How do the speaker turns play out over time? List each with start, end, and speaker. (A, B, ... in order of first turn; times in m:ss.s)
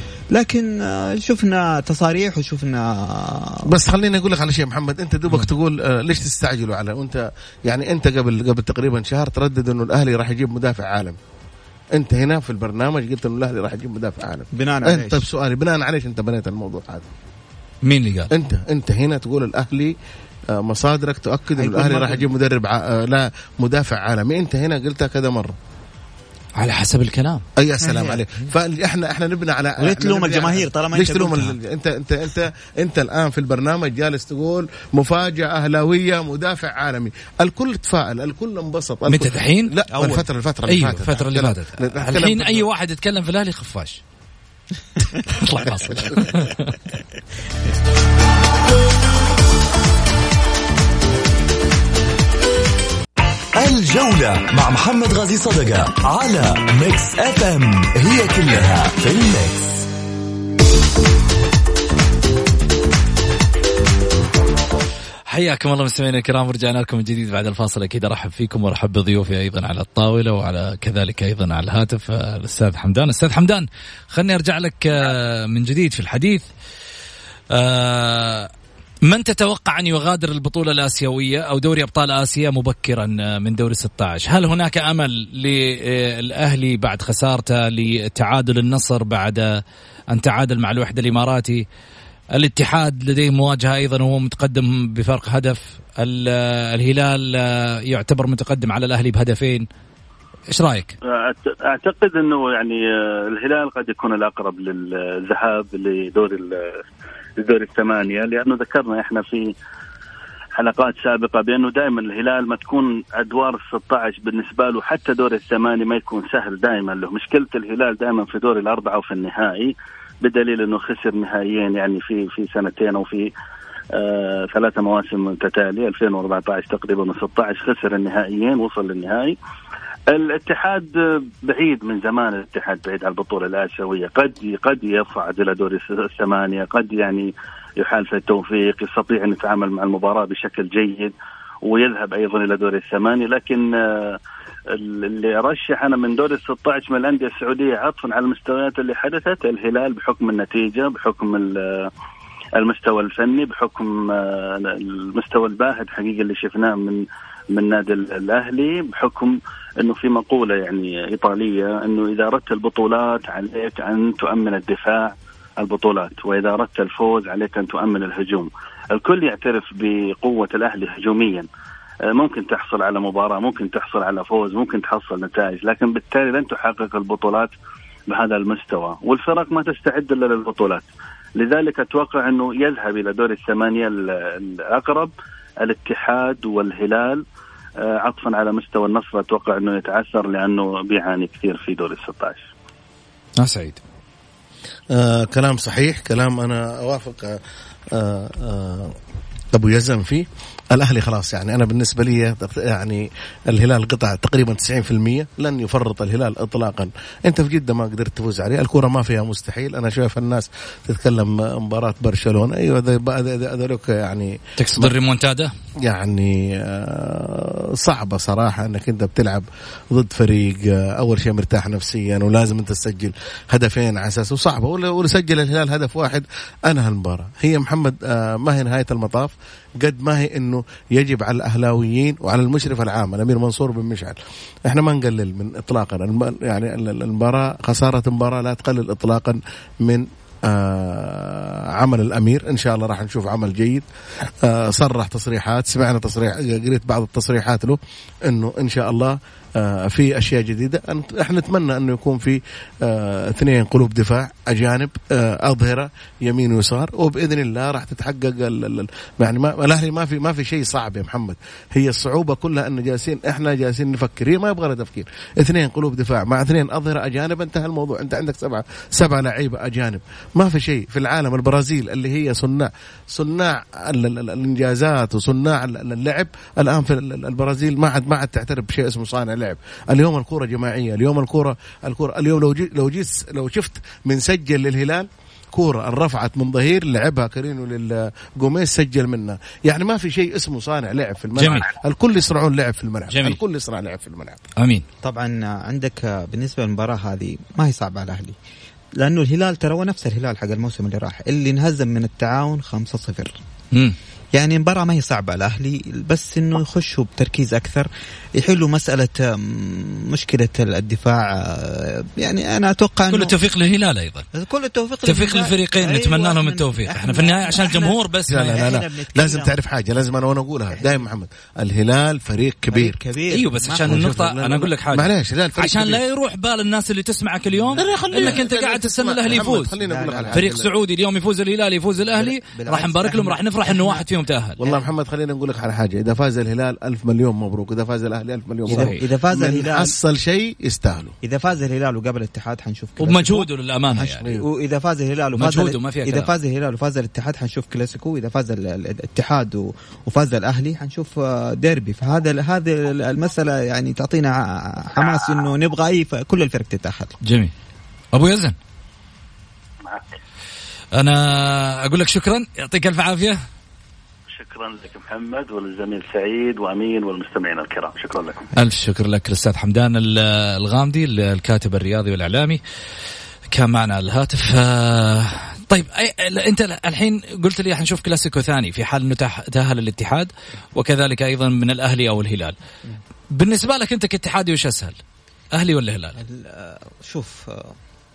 0:00.3-0:03.7 A
0:03.7-0:11.2 B
0:11.9-0:17.0 B
0:14.5-0:15.2 A
0:17.8-0:18.3 C
0:18.3-0:19.9 B
0:20.5-0:25.6 B
0:21.6-0:22.3 A
0:26.6-0:27.4 C
0:27.6-0:42.6 B
0:27.8-0:28.2 A
0:29.8-0:31.6 A
0:39.1-0:39.7 C
0:39.9-0:40.2 A
0:40.7-0:44.0 C
0:45.0-0:45.2 A
0:45.3-0:46.8 C
0:53.5-0:59.9 D
1:05.3-1:16.4 C
1:17.5-1:18.5 C
1:19.1-1:31.6 C
1:32.4-1:39.7 C
1:40.5-1:40.9 C
1:41.1-1:46.8 E
1:47.4-1:49.5 E
1:50.6-2:03.3 E
2:03.9-2:09.4 E
2:10.1-2:24.2 E
2:24.7-2:31.9 E
2:32.6-2:37.0 E
2:37.5-2:51.5 E
2:52.1-2:57.5 E
2:58.1-3:00.8 E
3:01.4-3:05.1 E
3:05.6-3:07.2 E
3:07.8-3:12.5 E
3:13.4-3:13.8 C
3:14.9-3:17.4 B
3:17.9-3:18.9 B
3:19.5-3:34.9 B
3:34.6-3:35.5 C
3:35.8-4:54.4 B
4:51.4-4:51.7 C
4:53.1-4:53.4 C
4:54.6-4:54.8 C
4:55.0-4:58.4 A
4:59.0-5:03.4 A
5:04.3-5:13.4 A
5:13.1-5:14.3 C
5:14.3-5:19.5 A
5:15.0-5:18.6 C
5:18.3-5:23.0 B
5:22.7-5:24.2 A
5:23.3-5:29.7 C
5:23.8-5:26.0 B
5:27.8-5:30.7 B
5:27.9-5:28.3 A
5:29.8-5:30.4 A
5:30.3-5:34.6 C
5:32.1-5:34.0 A
5:34.6-5:34.9 A
5:34.6-5:41.1 B
5:38.7-5:39.0 C
5:38.7-5:40.0 A
5:41.2-5:57.2 A
5:43.0-5:44.3 C
5:45.3-5:46.3 C
5:57.2-5:57.5 C
5:58.1-5:58.6 C
6:00.9-6:03.4 C
6:04.3-6:08.5 E
6:08.6-6:12.6 C
6:13.5-6:22.6 C
6:23.3-6:25.0 C
6:25.5-6:26.2 C
6:26.2-6:27.8 A